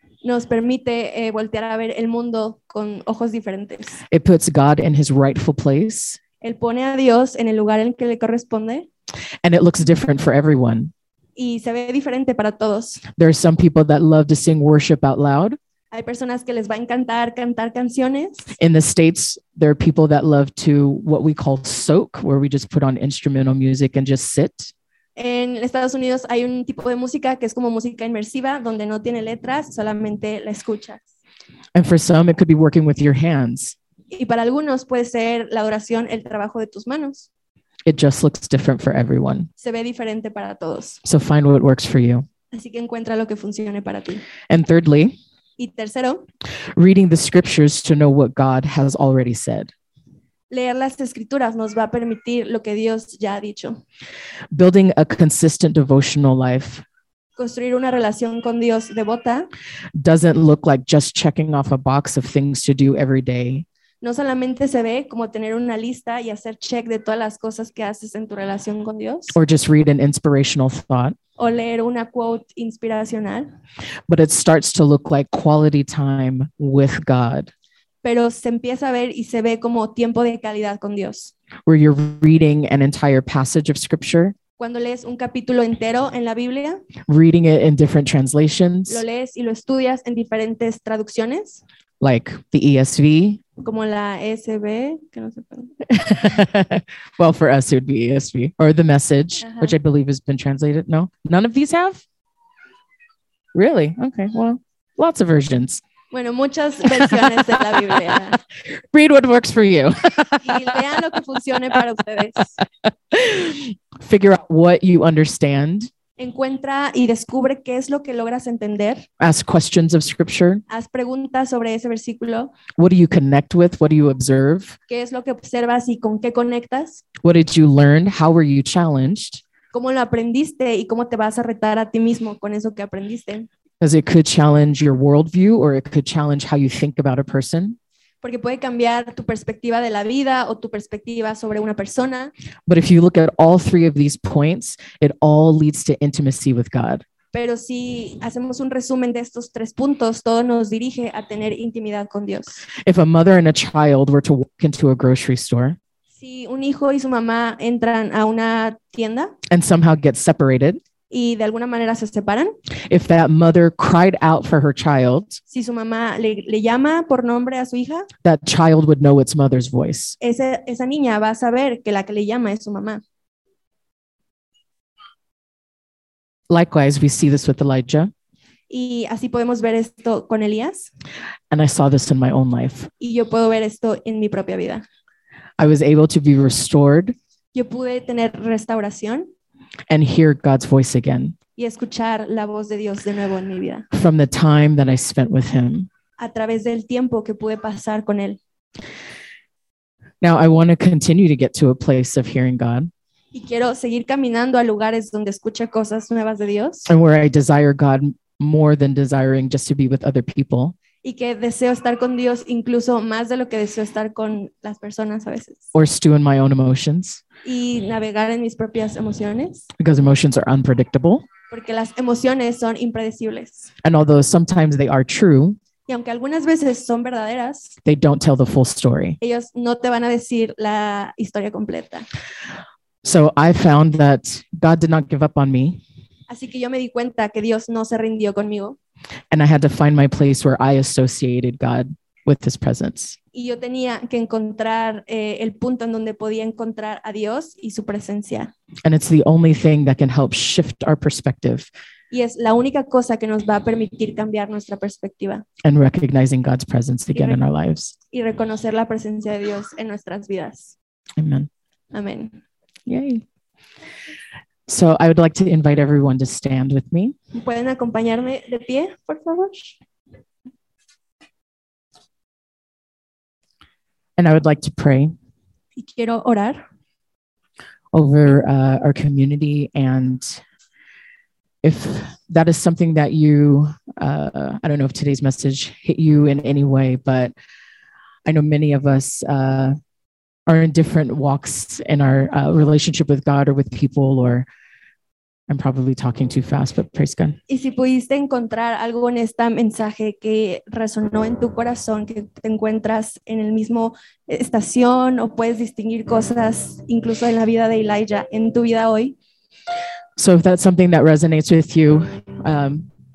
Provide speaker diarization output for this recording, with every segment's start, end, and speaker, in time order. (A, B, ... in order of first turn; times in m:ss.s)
0:00.2-0:04.0 A
0:04.1-0:06.2 B
0:06.4-0:08.9 A
0:09.4-0:10.9 B
0:11.4-0:13.0 A
0:13.1-0:15.6 B
0:15.9-0:18.5 A
0:18.6-0:24.7 B
0:25.2-0:31.1 A
0:31.7-0:33.8 B
0:34.1-0:37.3 A
0:37.8-0:39.5 B
0:39.6-0:41.0 A
0:41.0-0:42.2 B
0:42.5-0:44.2 A
0:44.5-0:45.2 B
0:45.6-0:46.2 A
0:46.7-0:49.7 B
0:50.5-0:53.8 A
0:54.5-0:56.8 B
0:57.4-0:59.5 A
1:00.0-1:03.6 B
1:04.0-1:09.4 A
1:09.3-1:11.2 B
1:11.4-1:13.5 A
1:14.1-1:17.5 B
1:18.0-1:21.3 A
1:21.6-1:24.4 B
1:24.6-1:26.8 A
1:27.0-1:29.0 B
1:28.9-1:31.6 A
1:32.0-1:33.4 B
1:33.6-1:35.8 A
1:35.8-1:42.0 B
1:39.4-1:39.7 A
1:43.5-1:45.8 B
1:46.1-1:48.4 A
1:47.0-1:50.8 B
1:50.4-1:52.6 A
1:52.8-1:55.9 B
1:56.2-1:59.1 A
1:59.2-2:00.6 B
2:00.7-2:02.5 A
2:02.8-2:04.8 B
2:04.9-2:07.0 A
2:07.2-2:09.4 B
2:09.7-2:13.5 A
2:13.8-2:17.8 B
2:18.2-2:22.3 A
2:22.7-2:27.0 B
2:27.3-2:32.6 A
2:32.8-2:35.8 B
2:36.2-2:39.3 A
2:39.5-2:40.8 B
2:41.1-2:42.5 A
2:42.9-2:45.4 B
2:45.5-2:48.1 A
2:48.2-2:50.2 B
2:50.2-2:53.0 A
2:56.5-2:58.1 B
2:58.7-3:00.9 A
3:01.5-3:02.9 B
3:03.0-3:04.8 A
3:05.6-3:07.2 B
3:07.5-3:09.3 A
3:09.9-3:11.4 B
3:11.6-3:13.9 A
3:13.9-3:15.9 B
3:16.2-3:18.4 A
3:20.2-3:22.9 B
3:23.3-3:26.9 A
3:26.9-3:30.8 B
3:31.0-3:35.7 A
3:35.7-3:37.2 B
3:37.4-3:39.7 A
3:39.8-3:41.3 B
3:41.5-3:43.7 A
3:43.8-3:45.6 B
3:45.8-3:47.8 A
3:47.8-3:49.2 B
3:49.2-3:52.0 A
3:53.0-3:55.8 B
3:56.3-3:58.8 A
3:59.3-4:03.2 B
4:03.3-4:08.5 A
4:08.8-4:11.7 B
4:12.1-4:15.4 A
4:15.6-4:17.9 B
4:17.1-4:17.4 A
4:18.1-4:20.7 A
4:21.2-4:21.5 B
4:21.9-4:22.4 A
4:22.9-4:23.2 B
4:24.7-4:27.1 B
4:27.4-4:29.8 A
4:34.2-4:35.1 B
4:35.8-4:36.6 A
4:37.9-4:40.4 B
4:41.6-4:47.3 B
4:48.2-4:49.8 B
4:50.5-4:54.4 B
4:55.5-4:57.4 B
4:57.5-5:09.2 A
5:10.2-5:12.9 B